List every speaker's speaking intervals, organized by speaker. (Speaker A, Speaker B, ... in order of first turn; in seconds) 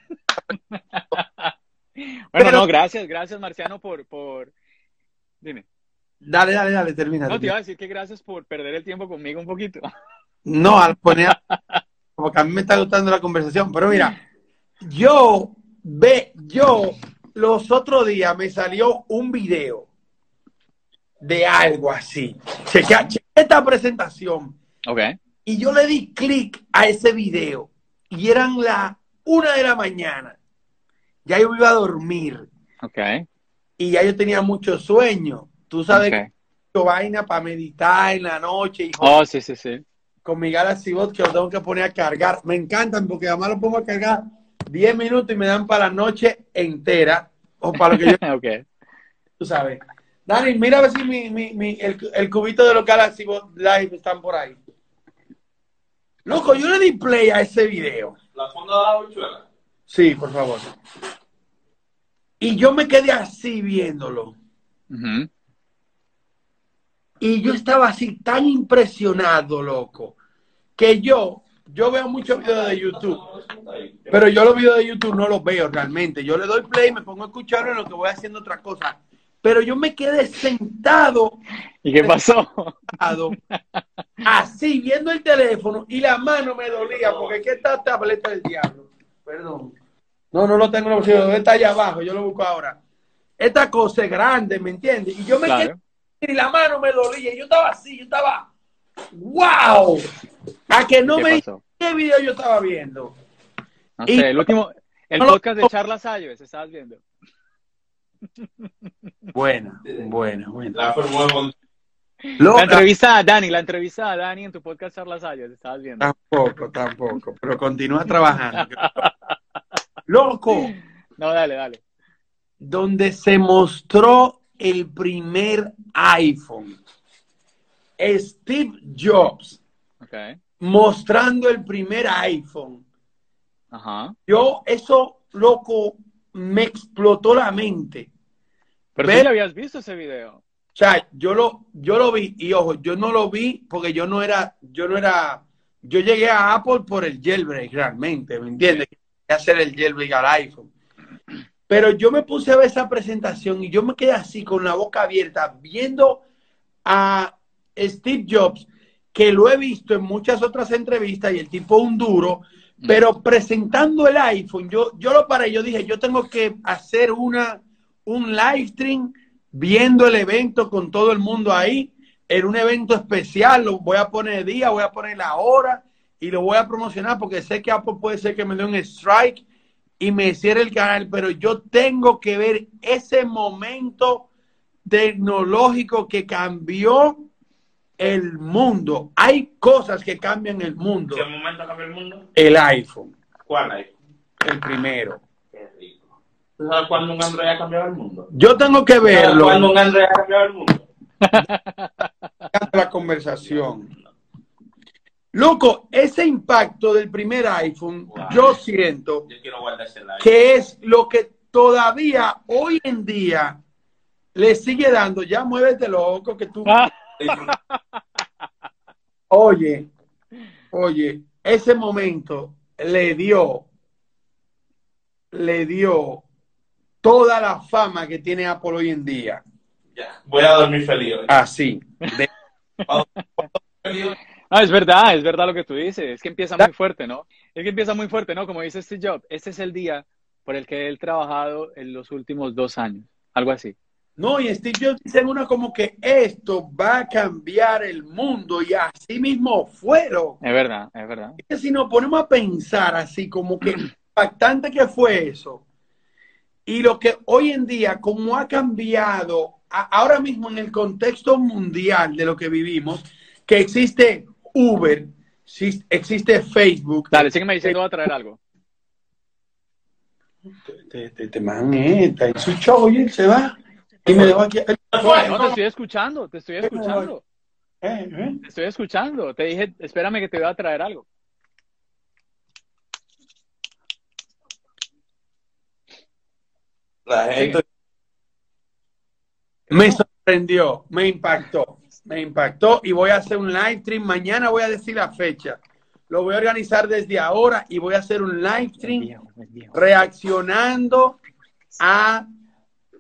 Speaker A: 0.5-4.5, 7.3-9.9, 11.3-11.8, 24.9-25.2, 32.8-33.3, 35.9-36.3, 39.0-39.8, 47.8-48.7, 64.9-65.3, 81.8-83.8, 95.5-95.8, 101.1-101.6, 104.0-107.0, 108.4-108.7, 112.5-116.1, 118.5-119.1, 120.6-121.8, 130.0-130.4, 133.7-134.2, 139.0-140.4, 201.2-202.5, 216.7-218.0, 234.5-243.8, 250.4-251.4, 267.1-268.4, 275.2-277.2, 278.4-281.1, 289.7-290.0, 298.8-299.8
Speaker B: 2.4-2.7, 6.2-7.5, 10.4-11.4, 12.2-14.2, 14.8-19.9, 21.2-24.6, 25.4-30.4, 31.3-32.5, 33.8-36.2, 36.7-39.2, 40.2-48.2, 49.4-54.6, 56.3-58.2, 59.9-60.7, 62.4-64.4, 67.2-70.2, 70.8-73.2, 74.1-81.4, 82.0-82.3, 82.9-83.4, 84.2-89.8, 90.3-92.8, 93.4-98.5, 99.1-100.0, 100.7-103.2, 104.1-104.5, 105.2-105.7, 109.3-110.8, 112.4-112.8, 116.0-118.8, 120.1-120.7, 122.6-126.8, 128.0-129.6, 130.6-132.8, 134.3-138.1, 139.0-139.3, 140.8-150.7, 151.7-156.2, 156.8-179.4, 180.0-184.3, 184.9-187.2, 188.0-191.2, 192.4-193.1, 194.4-195.2, 198.3-199.7, 202.5-203.9, 205.3-209.3, 210.2-213.6, 214.3-216.9, 219.3-219.9, 220.7-223.7, 225.3-226.2, 227.0-229.4, 231.3-232.3, 244.2-250.4, 251.4-255.6, 256.7-267.7, 270.6-275.6, 276.6-277.1, 277.8-278.4, 289.7-299.1, 299.7-301.2, 301.8-302.3
Speaker C: 58.4-59.5, 72.3-74.2, 86.7-87.6, 110.7-111.5, 191.1-192.3, 193.5-193.9, 195.5-196.0, 196.6-198.3, 199.1-200.8, 203.3-203.9, 208.1-208.4, 209.3-210.3, 217.2-217.5, 229.9-231.3, 233.8-234.2, 274.9-275.5, 287.1-287.6